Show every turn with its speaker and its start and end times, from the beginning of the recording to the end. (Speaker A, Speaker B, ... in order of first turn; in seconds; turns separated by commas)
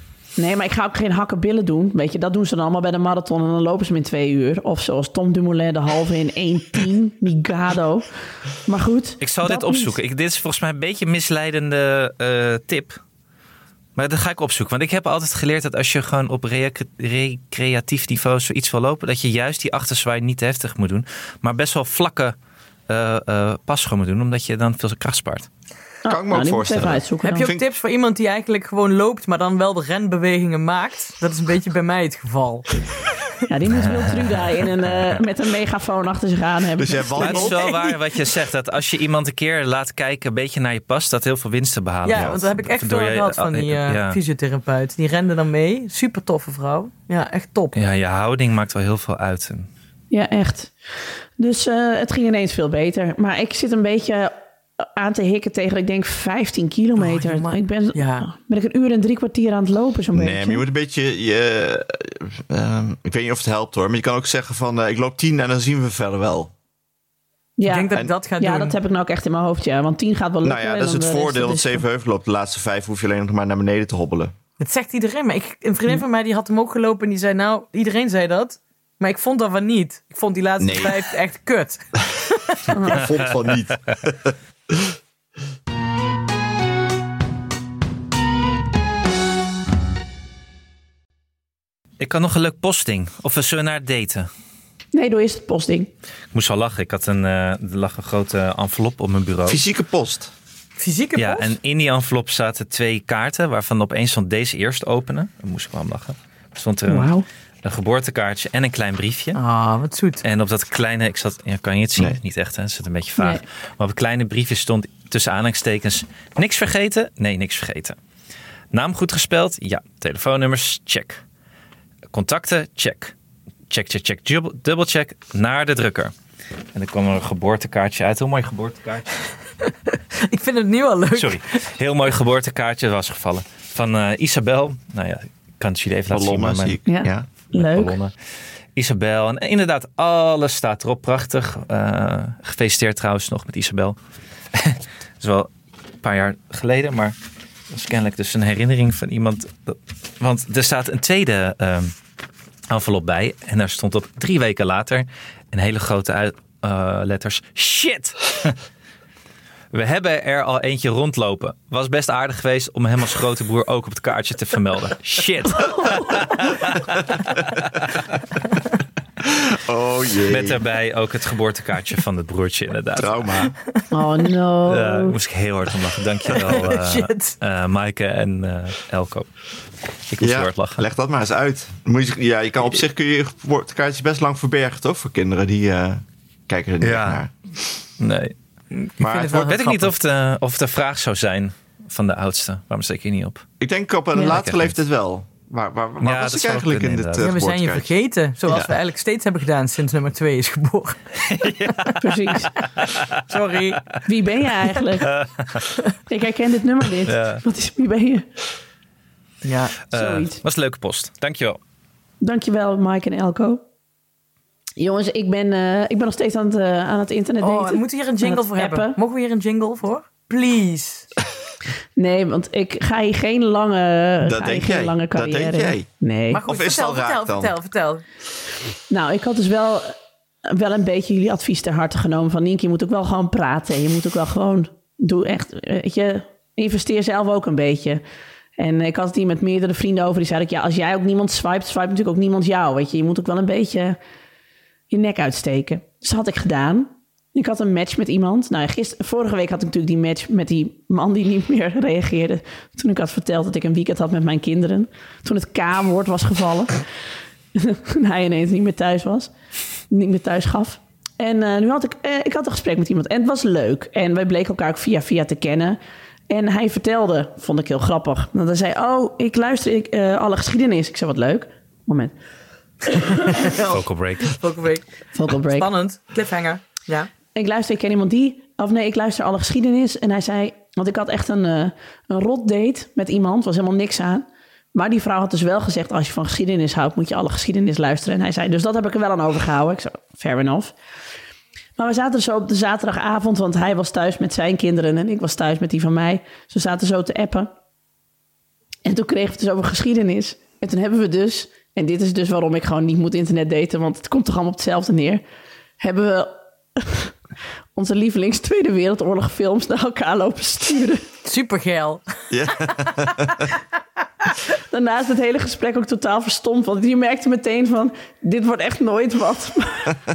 Speaker A: 0.4-9.9, Speaker B: 9.2-13.0, Speaker B: 14.0-22.4, Speaker B: 22.9-25.5, Speaker A: 26.0-27.5, Speaker C: 26.1-27.7, Speaker D: 27.2-32.8, Speaker A: 33.5-37.5, Speaker B: 33.7-35.0, Speaker C: 36.8-37.8, Speaker B: 37.2-44.2, Speaker D: 37.2-37.5, Speaker D: 42.0-47.8, Speaker C: 42.1-42.4, Speaker B: 47.8-49.7, Speaker A: 50.1-60.6, Speaker D: 57.0-58.3, Speaker C: 60.1-66.5, Speaker A: 67.6-71.8, Speaker D: 67.7-68.8, Speaker C: 70.4-74.3, Speaker D: 74.6-82.9, Speaker C: 80.6-81.0, Speaker A: 82.7-83.0, Speaker C: 82.8-84.9, Speaker B: 92.0-94.3, Speaker A: 94.9-95.9, Speaker B: 96.3-99.6, Speaker C: 99.5-100.3, Speaker D: 100.8-101.5, Speaker B: 101.2-107.1, Speaker A: 106.9-107.3, Speaker B: 107.6-109.4, Speaker D: 109.3-110.2, Speaker B: 110.2-118.0, Speaker B: 118.7-121.2, Speaker B: 122.1-123.1, Speaker B: 123.7-126.1, Speaker B: 126.7-129.3, Speaker D: 129.6-131.4, Speaker B: 131.2-136.8, Speaker C: 136.1-137.3, Speaker A: 136.9-138.0, Speaker B: 137.5-138.1, Speaker B: 138.8-144.0, Speaker B: 144.5-145.5, Speaker B: 146.0-147.1, Speaker B: 147.7-151.9, Speaker B: 152.7-158.6, Speaker B: 159.7-168.0, Speaker C: 169.2-170.6, Speaker B: 170.3-173.5, Speaker C: 173.0-173.5, Speaker A: 173.9-175.1, Speaker B: 174.7-179.3, Speaker D: 176.3-177.4, Speaker B: 180.1-180.8, Speaker C: 180.2-187.3, Speaker B: 186.8-187.2, Speaker B: 188.0-188.3, Speaker D: 188.7-189.5, Speaker C: 189.0-189.9, Speaker B: 189.2-193.5, Speaker C: 193.6-197.9, Speaker B: 194.2-194.7, Speaker B: 196.0-197.3, Speaker D: 197.2-202.0, Speaker C: 198.5-198.7, Speaker B: 201.2-202.1, Speaker A: 202.0-202.5, Speaker D: 202.6-204.0, Speaker B: 202.8-203.2, Speaker A: 204.1-205.1, Speaker B: 205.0-205.7, Speaker A: 206.1-208.3, Speaker B: 207.1-207.4, Speaker D: 209.4-209.8, Speaker B: 209.9-211.6, Speaker A: 209.9-210.4, Speaker A: 212.2-213.6, Speaker A: 214.8-219.0, Speaker D: 217.4-221.1, Speaker A: 222.0-226.4, Speaker C: 224.2-225.9, Speaker D: 226.3-228.0, Speaker C: 226.4-227.6, Speaker A: 228.9-229.9, Speaker A: 230.5-238.0, Speaker A: 238.6-244.0, Speaker A: 244.9-256.9, Speaker A: 257.6-259.3, Speaker A: 259.9-265.8, Speaker A: 266.3-272.1, Speaker D: 272.9-277.1, Speaker A: 273.1-273.5, Speaker B: 273.6-274.4, Speaker A: 275.1-275.7, Speaker A: 277.3-290.8, Speaker A: 291.8-297.5, Speaker A: 298.9-305.2, Speaker A: 305.8-307.1, Speaker A: 307.8-311.0, Speaker D: 311.2-313.1, Speaker C: 312.3-313.5, Speaker A: 314.7-320.0